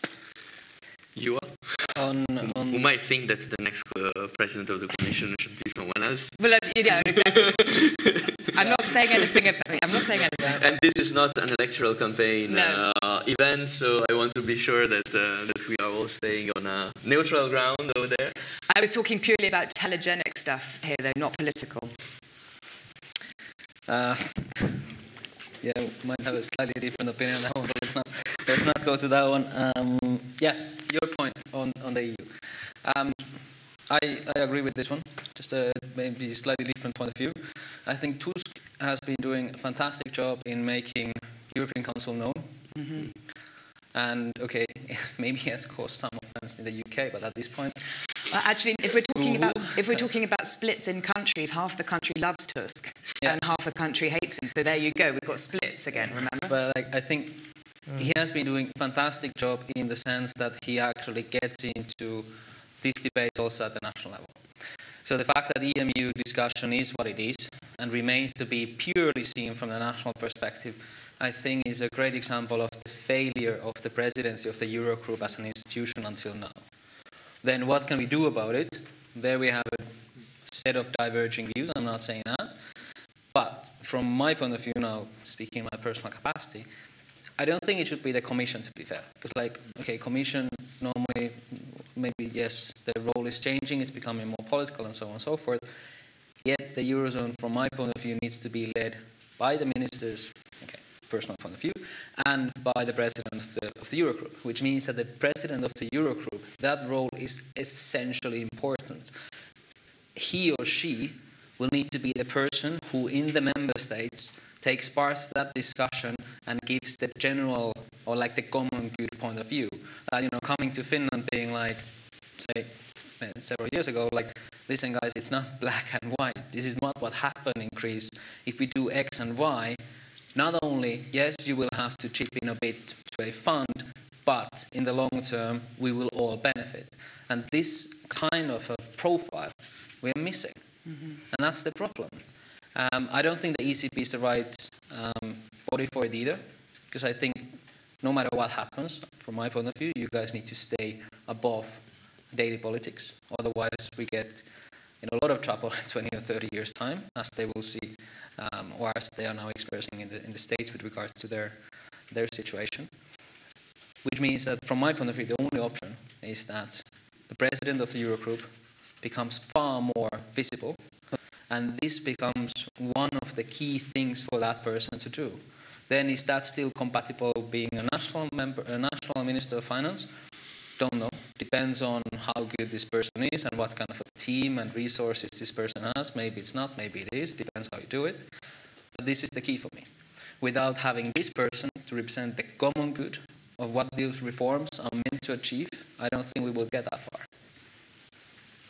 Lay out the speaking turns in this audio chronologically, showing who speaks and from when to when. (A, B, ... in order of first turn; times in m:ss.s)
0:01.1-0:06.4 A
0:01.9-0:02.9 B
0:06.4-0:08.0 C
0:06.9-0:09.3 A
0:08.5-0:10.7 C
0:10.4-0:18.4 A
0:12.5-0:12.8 C
0:18.7-0:21.9 C
0:23.9-0:24.9 B
0:25.6-0:33.3 B
0:33.8-0:42.5 B
0:42.7-0:43.1 C
0:43.9-0:47.8 B
0:48.3-0:56.5 C
0:49.1-0:50.0 B
0:56.1-1:04.4 B
1:05.0-1:16.6 B
1:17.4-1:22.6 B
1:23.3-1:26.7 B
1:27.4-1:35.7 B
1:36.4-1:49.1 B
1:50.1-2:09.8 B
2:10.3-2:20.6 B
2:20.9-2:21.2 C
2:21.3-2:22.2 B
2:22.7-2:34.4 B
2:35.0-2:42.9 B
2:44.0-2:50.8 B
2:51.5-3:00.1 B
3:00.8-3:08.3 B
3:08.9-3:09.9 B
3:10.4-3:17.3 B